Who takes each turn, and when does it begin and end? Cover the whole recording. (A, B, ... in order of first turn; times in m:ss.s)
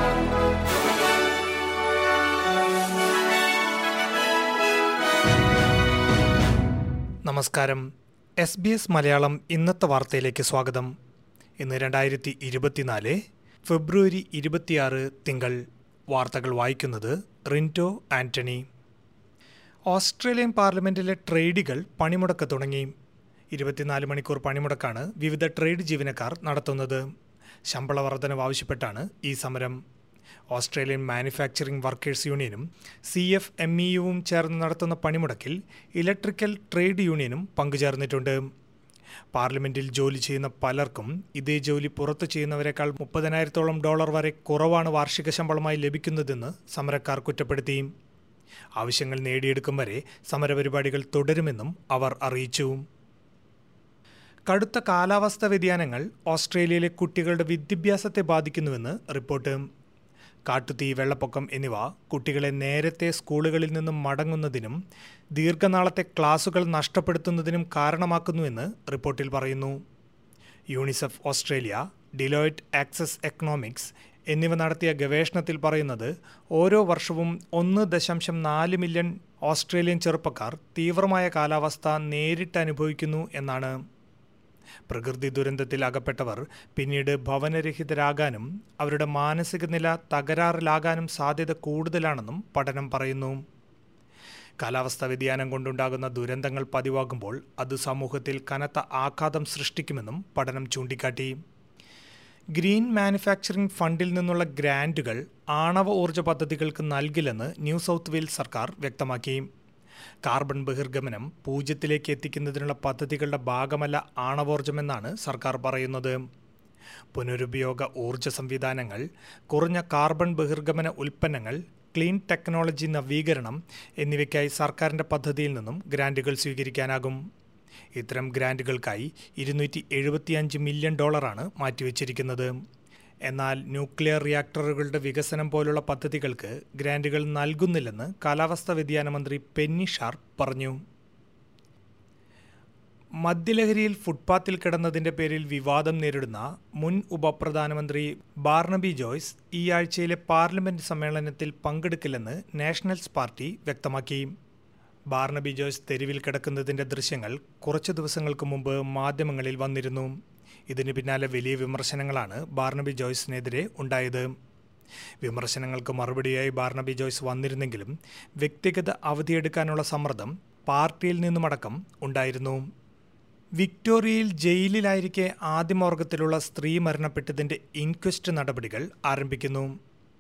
0:07.2-0:07.8 A
0:08.4-0:10.9 A
0:11.6-0:15.6 A
0:16.1-0:18.6 A
0:19.9-0:22.9 A
0:23.5-0:27.0 A
0:27.7-0:29.8 A
0:30.5-0:38.4 A
0:39.3-0:47.9 A
0:48.8-0:52.8 A
0:54.5-0:59.6 A
1:00.5-1:04.8 A
1:05.3-1:09.8 A
1:10.7-1:23.8 A
1:24.9-1:33.4 A
1:34.6-1:41.4 A
1:42.5-1:49.5 A
1:50.2-1:56.2 A
1:57.1-2:07.2 A
2:08.0-2:12.5 A
2:13.3-2:20.8 A
2:23.2-2:34.3 A
2:35.1-2:40.1 A
2:40.7-2:44.3 A
2:45.2-2:52.7 A
2:53.6-2:59.7 A